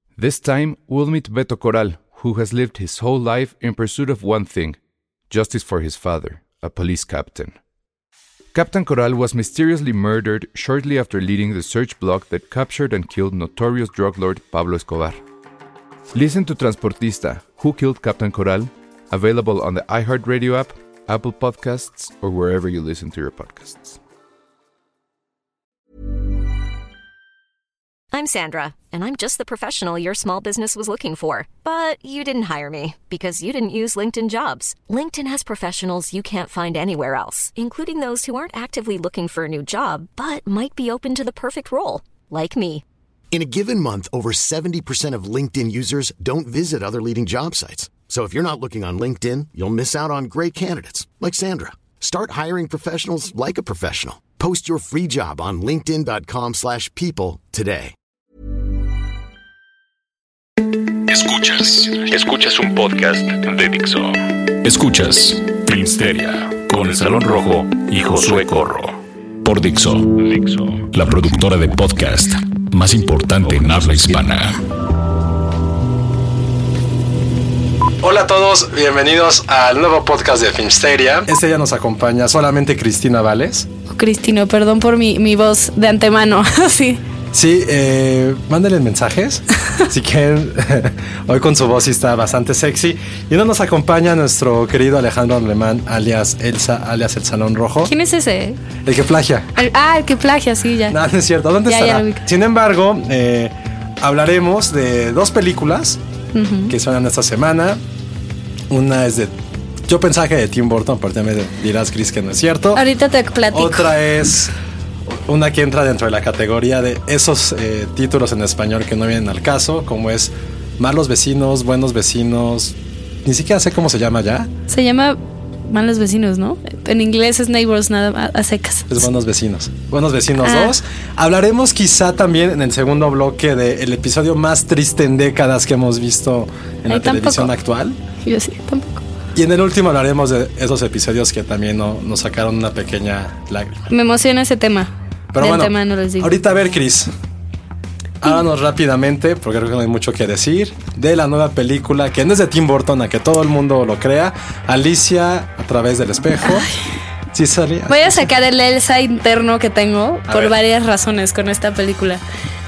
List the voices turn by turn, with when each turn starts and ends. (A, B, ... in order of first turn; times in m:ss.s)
0:00.2-0:04.8 A
0:05.3-0:07.6 A
0:08.5-0:15.2 A
0:16.1-0:24.0 A
0:28.1-0:42.8 B
0:43.3-0:58.0 C
1:01.0-1:14.6 D
1:18.0-1:23.7 E
1:23.9-1:27.0 F
1:27.3-1:37.9 E
1:37.8-1:38.6 F
1:38.8-1:39.5 E
1:39.6-1:41.0 F
1:40.9-1:46.0 E
1:41.7-1:42.2 F
1:46.3-1:46.8 F
1:46.7-1:47.8 E
1:48.7-1:49.3 E
1:49.9-1:52.8 E
1:52.7-1:54.0 F
1:53.5-1:54.5 E
1:55.1-2:04.5 E
2:04.7-2:09.0 F
2:08.9-2:18.0 E
2:10.4-2:10.8 F
2:16.9-2:17.5 F
2:18.2-2:19.0 F
2:19.3-2:23.9 E
2:23.9-2:26.3 F
2:25.3-2:27.1 E
2:28.2-2:36.7 E
2:36.4-2:36.8 F
2:37.3-2:38.3 E
2:37.9-2:42.2 F
2:40.3-2:40.6 E